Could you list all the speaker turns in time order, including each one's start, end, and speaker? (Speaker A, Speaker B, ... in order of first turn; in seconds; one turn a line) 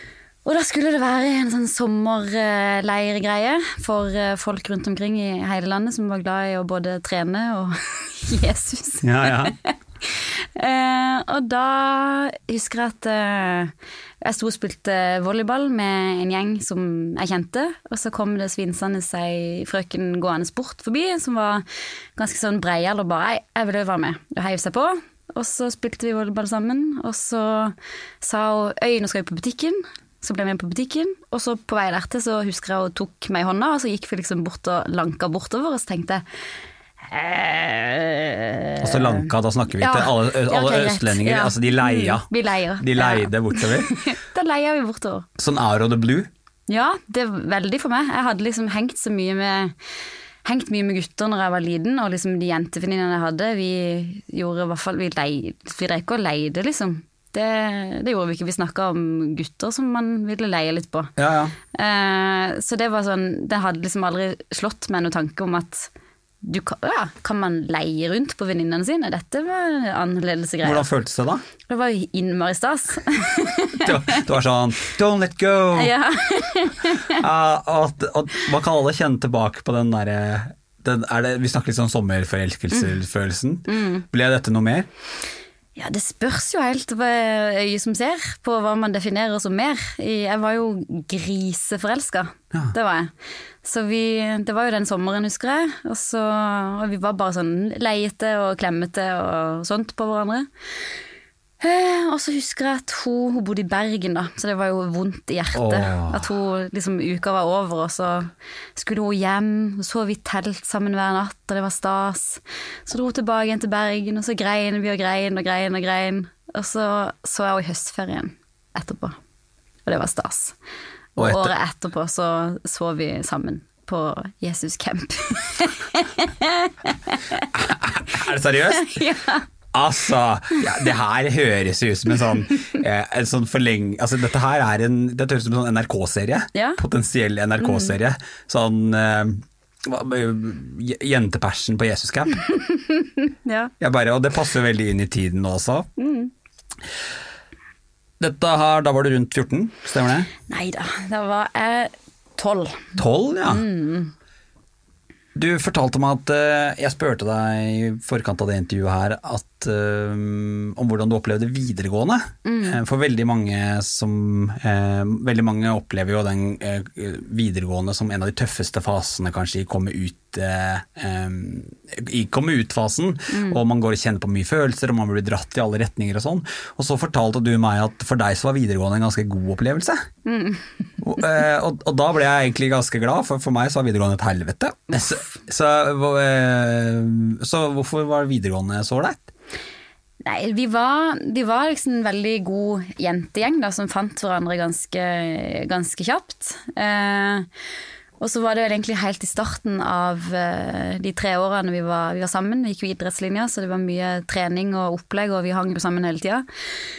Speaker A: 0.5-21.6
Speaker B: 9.0-9.6
Speaker A: 22.2-36.2
Speaker A: 37.0-45.3
Speaker B: 38.8-42.3
Speaker B: 42.8-43.9
Speaker B: 45.4-46.3
Speaker A: 46.7-49.7
Speaker A: 50.5-61.1
Speaker B: 61.2-61.5
Speaker A: 61.7-65.9
Speaker A: 66.4-70.9
Speaker B: 70.6-71.4
Speaker A: 71.7-74.2
Speaker B: 73.8-75.9
Speaker A: 75.7-77.2
Speaker B: 77.1-84.9
Speaker A: 83.7-84.0
Speaker A: 85.8-93.1
Speaker A: 93.6-100.5
Speaker A: 101.6-119.2
Speaker B: 105.5-106.2
Speaker A: 119.9-120.6
Speaker A: 121.2-127.5
Speaker B: 121.2-121.5
Speaker B: 127.5-129.0
Speaker A: 128.8-129.4
Speaker B: 129.7-142.4
Speaker A: 136.5-136.8
Speaker A: 137.6-138.0
Speaker A: 142.5-143.7
Speaker B: 143.8-145.9
Speaker A: 146.0-146.3
Speaker B: 148.2-150.3
Speaker A: 150.5-154.1
Speaker B: 153.0-153.7
Speaker B: 155.3-180.1
Speaker A: 162.4-162.8
Speaker A: 173.3-173.6
Speaker A: 180.3-180.7
Speaker B: 181.0-189.3
Speaker A: 184.9-185.3
Speaker A: 190.2-197.5
Speaker A: 198.2-206.4